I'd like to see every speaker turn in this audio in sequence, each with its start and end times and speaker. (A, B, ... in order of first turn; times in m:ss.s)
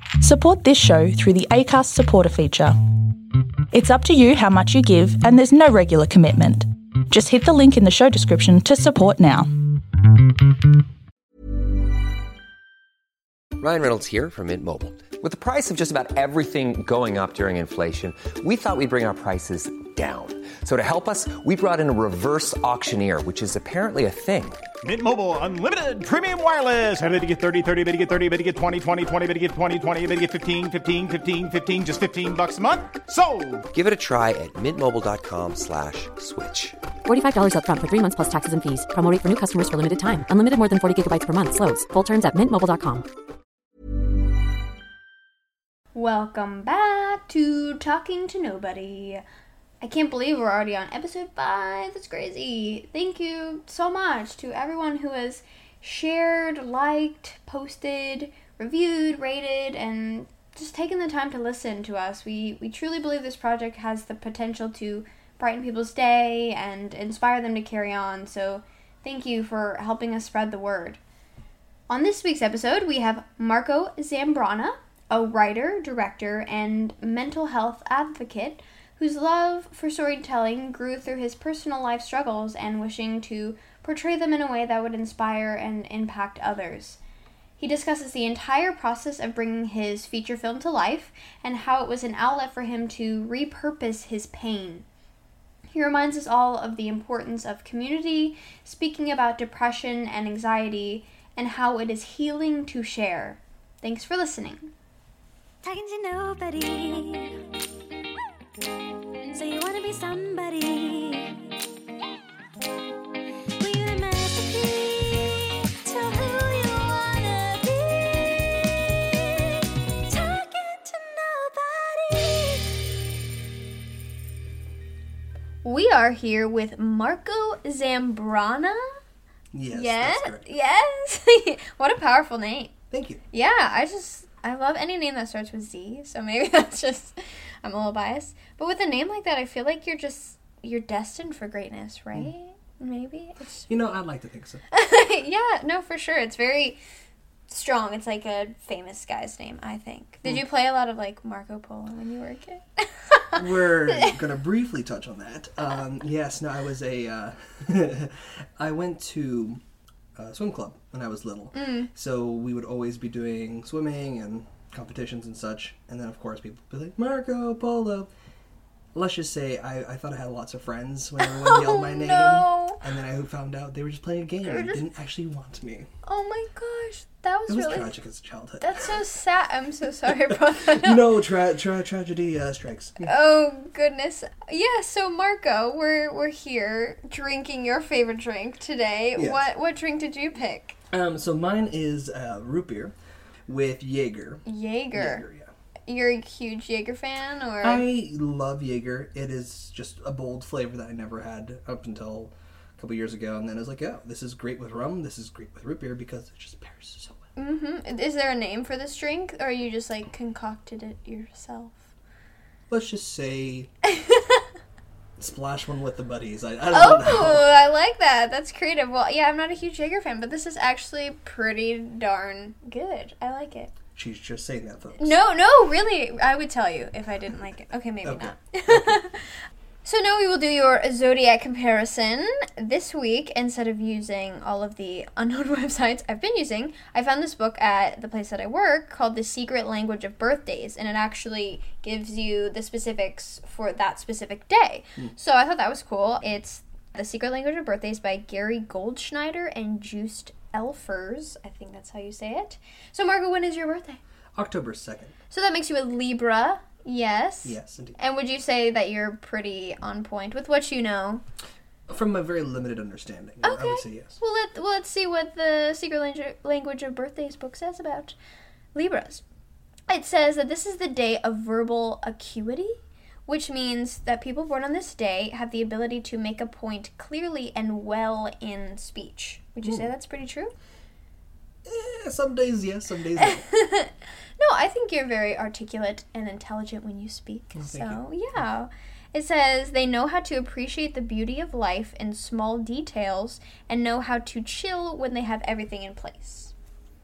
0:00.2-0:02.8 A
0:03.7-0:09.5 A
0:13.6-0:24.7 B
0:24.8-0:33.6 C
0:33.7-0:36.8 B
0:37.0-0:43.0 D
0:45.9-0:49.2 E
0:49.8-1:11.0 E
1:11.9-1:27.0 E
1:27.6-1:34.8 E
1:35.7-1:44.7 E
1:45.6-1:47.4 F
1:49.3-1:51.4 F
1:53.6-2:02.8 F
2:05.6-2:08.9 E
2:09.5-2:10.4 G
2:09.7-2:12.7 E
2:12.9-2:13.2 G
2:13.3-2:23.7 E
2:23.7-2:24.6 G
2:24.7-2:26.8 E
2:27.5-2:33.4 E
2:33.3-2:39.6 G
2:40.1-2:48.1 G
2:41.5-2:41.9 E
2:48.9-2:55.9 G
2:51.2-2:52.8 E
2:54.4-2:54.8 E
2:56.0-2:57.9 E
2:57.5-2:59.0 G
2:58.6-3:01.0 E
3:00.3-3:03.1 G
3:03.0-3:10.8 E
3:09.1-3:09.4 G
3:10.9-3:12.9 G
3:13.5-3:15.5 G
3:14.4-3:15.2 E
3:15.9-3:17.8 E
3:17.6-3:27.2 G
3:27.4-3:31.8 E
3:32.7-3:33.7 G
3:34.0-3:34.4 E
3:35.2-3:37.5 G
3:36.7-3:43.7 E
3:43.9-3:45.1 G
3:45.0-3:49.3 E
3:48.0-3:48.9 G
3:49.8-4:14.0 E
4:14.3-4:15.1 G
4:15.3-4:21.2 E
4:17.4-4:18.0 G
4:21.9-4:24.2 G
4:23.4-4:28.2 E
4:28.7-4:29.2 E
4:29.9-4:40.5 E
4:39.6-4:39.9 G
4:41.6-4:43.5 G
4:43.2-4:56.5 E
4:47.6-4:48.0 G